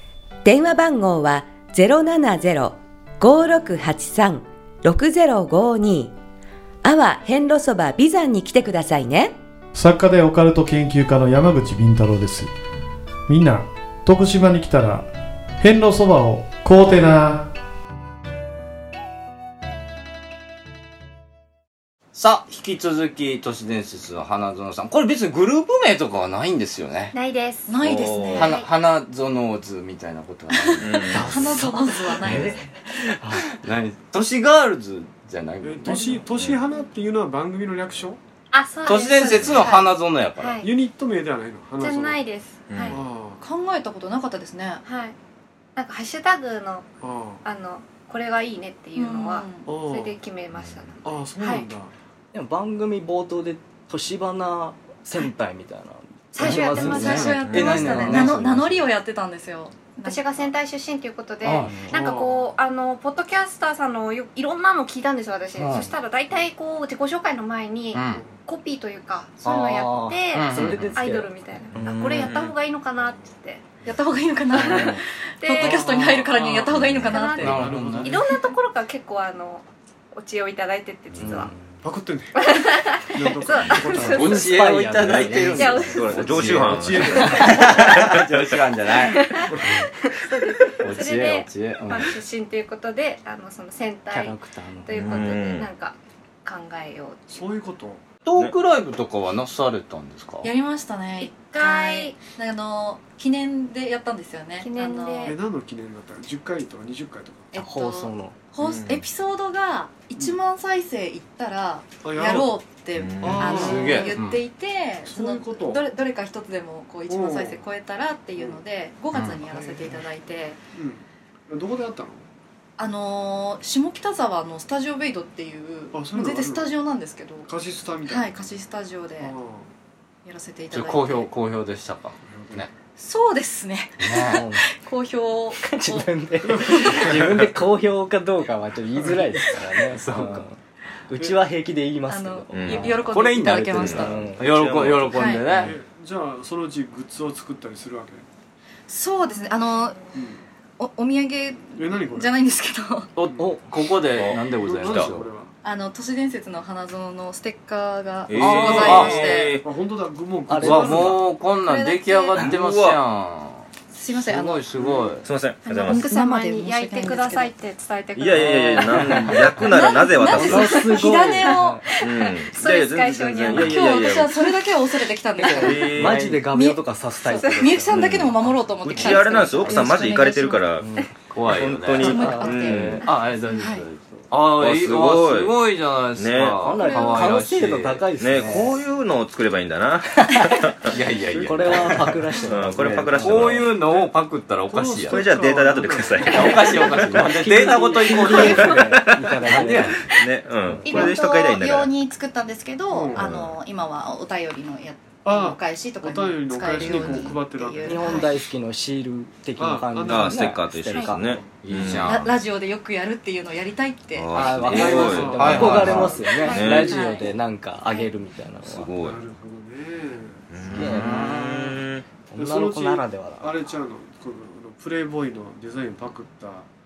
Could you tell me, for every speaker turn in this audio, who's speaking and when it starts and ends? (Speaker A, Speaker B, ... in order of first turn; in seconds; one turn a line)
Speaker A: 0.4-6.1
Speaker A: 6.8-9.3
Speaker B: 9.7-12.5
Speaker B: 13.3-15.1
Speaker B: 15.6-17.5
Speaker C: 22.1-27.1
Speaker D: 27.1-27.7
Speaker E: 27.7-28.6
Speaker F: 27.8-28.5
Speaker D: 28.3-28.7
Speaker C: 28.4-31.2
Speaker E: 30.5-32.7
Speaker F: 30.8-31.5
Speaker G: 31.1-33.4
Speaker C: 33.6-36.0
Speaker H: 35.6-38.2
Speaker D: 38.5-40.7
Speaker C: 38.9-40.6
Speaker F: 39.3-39.6
Speaker H: 40.6-42.2
Speaker D: 41.8-43.0
Speaker F: 42.7-43.0
Speaker H: 42.9-43.4
Speaker E: 43.4-44.8
Speaker D: 44.9-45.1
Speaker D: 45.8-46.9
Speaker H: 47.0-47.4
Speaker D: 47.4-51.6
Speaker E: 48.9-49.7
Speaker H: 49.6-50.2
Speaker F: 50.5-50.9
Speaker H: 51.0-51.9
Speaker G: 52.3-58.5
Speaker D: 56.3-57.4
Speaker E: 56.4-60.5
Speaker C: 56.7-58.8
Speaker F: 57.4-57.8
Speaker D: 60.0-73.6
Speaker C: 61.4-61.7
Speaker G: 61.5-62.0
Speaker H: 61.9-62.5
Speaker C: 65.6-65.9
Speaker C: 67.9-68.2
Speaker H: 68.1-68.4
Speaker G: 69.4-72.3
Speaker C: 70.3-70.8
Speaker F: 71.8-72.5
Speaker E: 73.8-77.7
Speaker D: 74.5-76.1
Speaker G: 74.6-75.0
Speaker H: 75.5-76.7
Speaker F: 76.7-77.2
Speaker D: 77.0-81.5
Speaker H: 77.4-78.4
Speaker C: 77.4-78.1
Speaker G: 81.2-81.5
Speaker H: 81.8-82.5
Speaker D: 82.3-84.7
Speaker H: 83.1-84.5
Speaker F: 83.6-84.0
Speaker G: 84.0-86.5
Speaker C: 84.1-89.2
Speaker F: 85.0-88.2
Speaker D: 85.3-87.7
Speaker H: 86.5-87.9
Speaker D: 89.1-97.5
Speaker H: 89.5-89.8
Speaker C: 90.8-92.1
Speaker G: 94.1-95.3
Speaker F: 94.9-95.7
Speaker H: 97.3-98.0
Speaker C: 98.2-100.5
Speaker E: 100.4-105.4
Speaker D: 101.2-102.2
Speaker D: 104.6-105.4
Speaker H: 105.2-107.5
Speaker E: 107.5-120.6
Speaker G: 107.5-108.3
Speaker F: 108.6-109.0
Speaker H: 112.0-112.6
Speaker F: 113.0-113.7
Speaker H: 113.2-114.2
Speaker C: 113.6-114.4
Speaker H: 115.0-115.8
Speaker H: 117.1-117.6
Speaker H: 119.2-120.0
Speaker H: 120.7-122.2
Speaker E: 122.8-127.5
Speaker H: 125.9-126.7
Speaker H: 127.5-128.3
Speaker E: 128.1-129.3
Speaker H: 129.2-129.7
Speaker E: 130.2-131.3
Speaker C: 130.8-132.7
Speaker H: 132.2-132.7
Speaker E: 133.0-137.1
Speaker C: 134.0-134.4
Speaker G: 134.3-134.6
Speaker G: 135.7-140.6
Speaker H: 136.5-137.1
Speaker C: 140.0-140.4
Speaker G: 141.1-144.4
Speaker H: 141.2-141.4
Speaker E: 142.1-144.3
Speaker F: 142.5-143.1
Speaker C: 143.1-145.7
Speaker F: 143.7-145.3
Speaker E: 145.1-145.5
Speaker H: 145.5-148.2
Speaker G: 145.5-145.7
Speaker E: 148.9-150.0
Speaker D: 149.2-150.1
Speaker H: 150.1-150.4
Speaker E: 150.8-153.1
Speaker H: 151.7-152.3
Speaker H: 153.2-153.6
Speaker C: 153.2-155.2
Speaker G: 153.3-153.6
Speaker F: 154.2-155.1
Speaker H: 154.3-155.5
Speaker E: 155.6-159.6
Speaker F: 158.3-159.7
Speaker C: 158.4-159.2
Speaker H: 158.7-161.3
Speaker G: 160.5-161.2
Speaker C: 160.7-163.7
Speaker E: 161.5-162.5
Speaker F: 162.3-163.0
Speaker E: 163.9-164.6
Speaker C: 164.2-165.2
Speaker H: 164.7-165.2
Speaker F: 165.2-166.1
Speaker D: 165.6-169.5
Speaker E: 165.8-167.5
Speaker F: 168.2-170.9
Speaker G: 168.9-169.3
Speaker E: 169.6-171.9
Speaker G: 170.2-171.8
Speaker D: 170.9-174.0
Speaker F: 172.0-174.5
Speaker E: 173.5-180.6
Speaker F: 175.4-176.4
Speaker G: 175.4-178.3
Speaker F: 177.9-180.9
Speaker G: 178.9-179.8
Speaker G: 180.8-181.1
Speaker C: 181.3-182.1
Speaker F: 181.4-183.1
Speaker E: 181.9-183.9
Speaker G: 182.0-183.0
Speaker C: 182.8-188.5
Speaker F: 184.5-185.6
Speaker F: 186.2-186.8
Speaker G: 186.6-188.7
Speaker F: 188.2-191.0
Speaker C: 190.9-192.1
Speaker G: 191.3-193.6
Speaker F: 192.4-193.7
Speaker C: 193.2-195.2
Speaker H: 194.7-197.3
Speaker F: 195.1-196.8
Speaker C: 196.3-198.5
Speaker G: 197.0-200.0
Speaker F: 198.3-201.9
Speaker C: 199.5-199.9
Speaker E: 200.8-208.3
Speaker D: 200.9-201.1
Speaker H: 202.9-203.4
Speaker F: 203.1-203.5
Speaker H: 205.2-208.1
Speaker D: 206.9-207.3
Speaker G: 207.8-211.4
Speaker D: 208.0-208.3
Speaker H: 209.6-210.5
Speaker F: 210.1-212.2
Speaker H: 211.2-211.6
Speaker C: 211.6-212.3
Speaker E: 212.0-214.9
Speaker F: 214.1-217.2
Speaker G: 214.3-218.9
Speaker H: 214.6-217.0
Speaker C: 215.4-216.1
Speaker D: 216.2-217.3
Speaker F: 218.6-219.2
Speaker H: 218.9-221.0
Speaker F: 220.5-222.0
Speaker G: 220.7-221.7
Speaker C: 221.0-221.6
Speaker G: 222.3-223.6
Speaker H: 222.3-226.7